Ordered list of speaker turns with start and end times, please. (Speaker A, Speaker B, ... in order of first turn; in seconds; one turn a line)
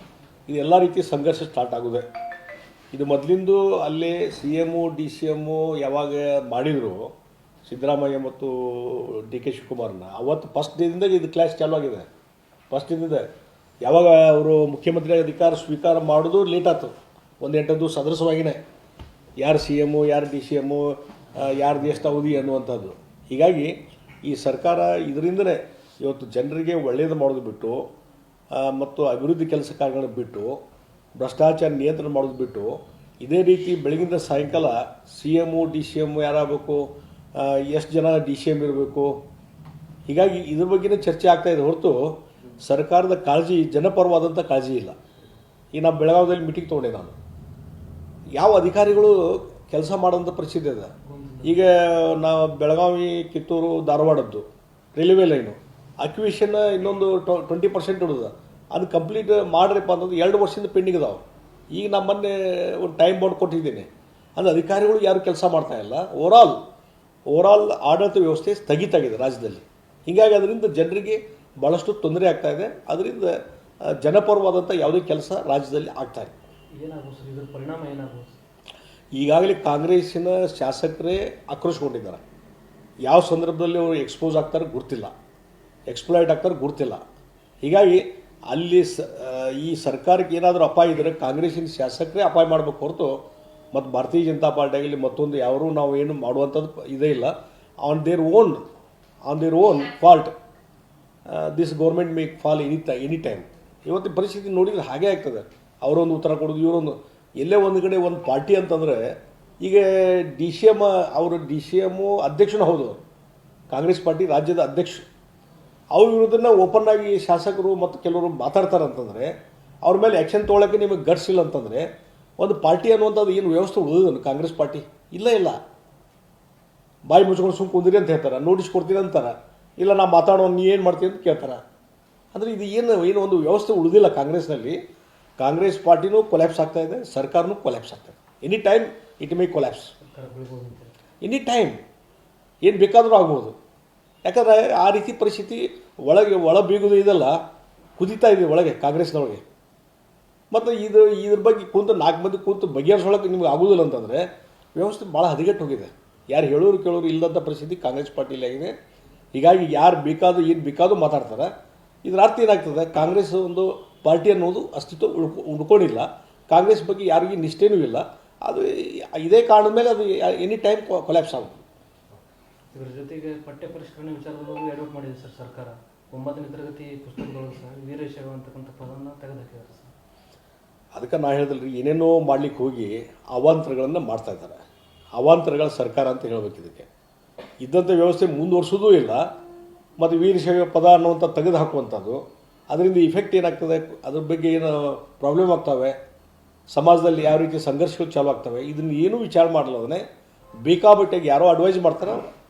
Speaker A: 0.5-2.1
Speaker A: 2.9-7.1
Speaker A: 7.7-12.1
Speaker A: 12.7-13.3
Speaker A: 13.8-18.6
Speaker A: 19.4-27.9
Speaker A: 28.5-30.6
Speaker A: 31.2-39.2
Speaker A: 40.1-45.0
Speaker A: 45.7-47.2
Speaker A: 48.4-61.2
Speaker B: 51.0-51.7
Speaker A: 61.7-66.6
Speaker A: 67.3-76.3
Speaker B: 76.8-78.4
Speaker A: 79.2-82.2
Speaker A: 83.0-85.1
Speaker A: 85.9-87.0
Speaker A: 87.6-93.2
Speaker A: 93.7-98.7
Speaker A: 99.2-100.3
Speaker A: 101.3-113.0
Speaker A: 113.7-115.1
Speaker A: 115.9-125.6
Speaker A: 127.1-131.6
Speaker A: 132.3-134.8
Speaker A: 135.4-139.9
Speaker B: 140.0-140.9
Speaker A: 141.2-141.8
Speaker A: 142.6-143.6
Speaker A: 144.2-147.4
Speaker A: 148.0-149.4
Speaker A: 150.5-158.7
Speaker A: 159.3-161.5
Speaker A: 162.1-171.6
Speaker B: 172.7-179.9
Speaker A: 180.9-184.6
Speaker A: 185.2-186.9
Speaker A: 187.6-189.3
Speaker A: 190.0-196.0
Speaker A: 196.7-200.0
Speaker A: 200.7-202.2